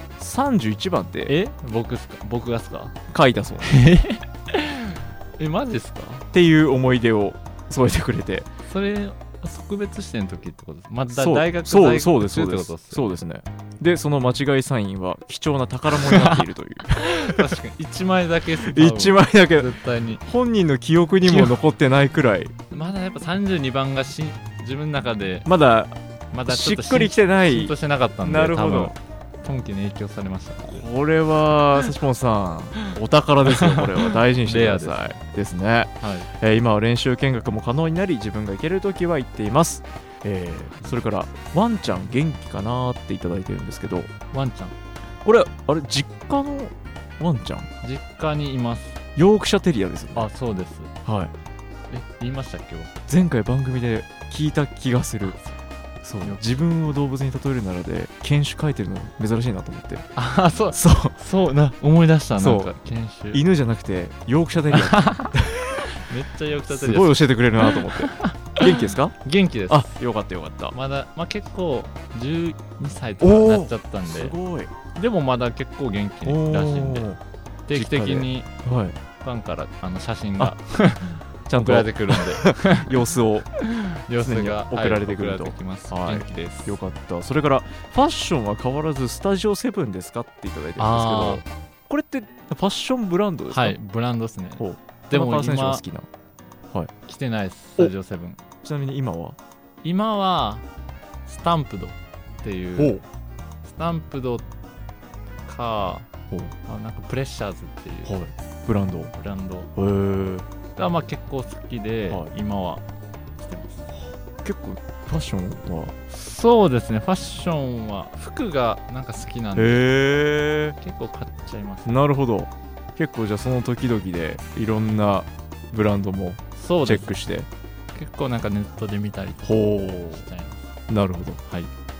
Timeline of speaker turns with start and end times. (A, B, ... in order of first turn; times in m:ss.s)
0:00.2-0:01.3 A
0:01.2-0:02.9 B
0:03.1-0:03.8 A
0:03.6-0:06.3 B
0:06.3-0:08.5 A
0:08.7-0:13.2 B
0:11.1-0:17.5 A
0:15.9-0:16.4 B
0:17.0-0:20.2 B
0:18.6-0:19.7 A
0:20.2-0:22.5 A
0:21.2-0:21.6 B
0:22.7-0:25.5 B
0:25.4-0:28.9 A
0:26.3-0:30.8 B
0:30.6-0:44.1 A
0:33.4-0:35.0 B
0:36.0-0:36.3 B
0:44.3-0:44.8 B
0:45.2-0:47.7 A
0:47.8-0:49.0 B
0:49.2-0:50.3 A
0:50.1-0:50.9 B
0:51.0-0:51.3 A
0:51.9-0:52.9 B
0:53.1-0:55.4 A
0:55.2-0:55.5 B
0:56.0-1:00.0 A
1:00.2-1:03.4 B
1:00.7-1:01.2 A
1:02.4-1:02.7 A
1:03.3-1:05.8 A
1:04.7-1:05.3 B
1:05.9-1:09.9 B
1:06.7-1:09.2 A
1:09.7-1:10.8 A
1:10.7-1:14.4 B
1:13.2-1:14.7 A
1:14.9-1:17.1 B
1:16.2-1:17.2 A
1:17.7-1:18.5 B
1:17.7-1:19.0 A
1:19.2-1:23.0 B
1:21.5-1:23.5 A
1:23.5-1:26.8 B
1:24.2-1:33.8 A
1:30.8-1:31.4 B
1:33.5-1:35.8 B
1:34.6-1:36.1 A
1:37.1-1:38.4 B
1:38.6-1:39.4 A
1:39.8-1:40.6 B
1:41.2-1:43.0 B
1:42.8-1:43.0 A
1:43.6-1:44.4 B
1:45.4-1:46.1 B
1:46.7-1:48.1 B
1:48.0-1:49.1 A
1:49.1-1:49.7 B
1:49.8-1:50.5 A
1:50.8-1:52.8 B
1:53.4-1:53.9 B
1:53.9-1:55.9 A
1:56.1-1:59.9 B
1:59.6-2:00.8 A
2:00.8-2:01.9 B
2:01.9-2:07.5 A
2:06.6-2:07.2 B
2:07.9-2:10.6 B
2:09.4-2:10.2 A
2:10.9-2:11.4 A